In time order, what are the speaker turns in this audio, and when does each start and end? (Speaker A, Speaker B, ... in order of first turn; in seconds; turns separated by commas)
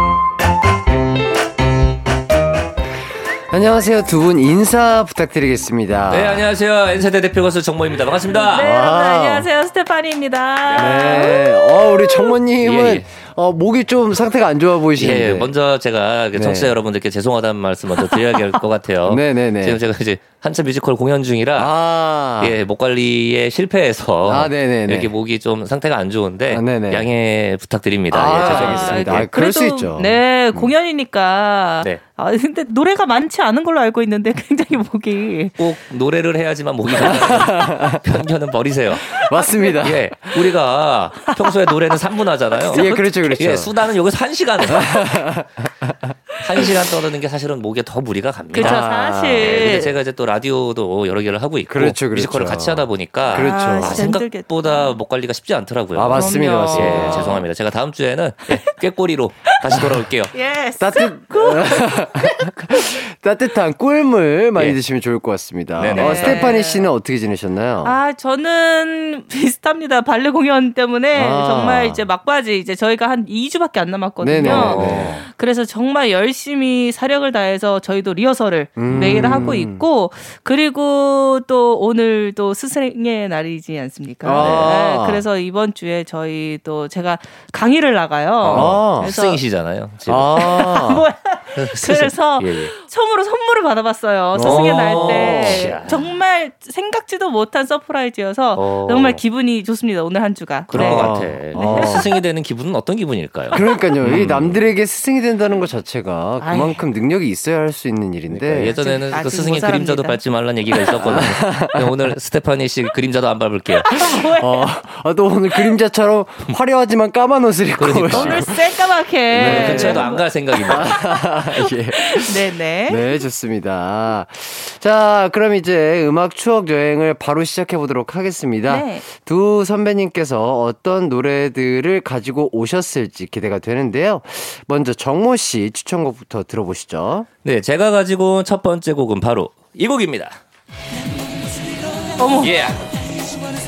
Speaker A: 3.5-6.4, Speaker B: 6.1-8.6, Speaker C: 8.3-12.4, Speaker A: 8.5-9.5, Speaker B: 10.6-11.3, Speaker A: 10.8-15.5, Speaker B: 12.6-13.0, Speaker B: 14.9-21.7, Speaker A: 16.3-16.7, Speaker A: 19.1-19.8, Speaker A: 21.6-22.6, Speaker B: 22.4-29.3, Speaker A: 24.3-25.1, Speaker A: 26.5-27.1, Speaker A: 28.1-30.7, Speaker C: 28.4-35.6, Speaker B: 35.6-39.1, Speaker A: 37.0-38.0, Speaker C: 39.1-39.8, Speaker A: 39.1-40.5, Speaker B: 39.8-45.0, Speaker C: 41.1-41.8, Speaker C: 42.6-43.1, Speaker A: 42.7-43.7, Speaker A: 44.7-46.1, Speaker B: 46.4-60.3, Speaker C: 48.5-49.9, Speaker A: 48.6-49.9, Speaker A: 51.7-54.1, Speaker C: 53.3-55.0, Speaker A: 55.9-57.4, Speaker C: 56.1-57.4, Speaker C: 58.5-58.8, Speaker C: 59.4-62.8, Speaker A: 60.8-68.0, Speaker B: 65.8-66.5, Speaker C: 65.9-66.9, Speaker C: 67.8-89.4, Speaker A: 71.1-72.0, Speaker A: 74.2-75.2, Speaker B: 74.4-75.2, Speaker A: 78.8-79.8, Speaker A: 84.2-85.2, Speaker B: 84.4-84.7, Speaker B: 88.4-90.3, Speaker A: 88.5-89.1, Speaker A: 90.1-91.0, Speaker C: 90.3-102.2, Speaker B: 91.5-92.7, Speaker A: 94.3-95.7, Speaker B: 94.4-96.1, Speaker B: 98.5-99.2, Speaker B: 100.7-104.6, Speaker A: 100.7-102.1, Speaker A: 103.5-108.8, Speaker C: 106.4-106.8, Speaker B: 108.3-113.8, Speaker C: 108.7-111.1, Speaker A: 111.0-111.9, Speaker C: 113.7-114.8, Speaker A: 114.0-118.6, Speaker B: 117.8-118.6, Speaker C: 118.0-123.2, Speaker A: 119.3-120.1, Speaker B: 119.3-121.0, Speaker A: 120.7-137.3, Speaker C: 128.7-129.1, Speaker B: 137.4-140.4, Speaker C: 142.2-142.5, Speaker B: 142.4-142.9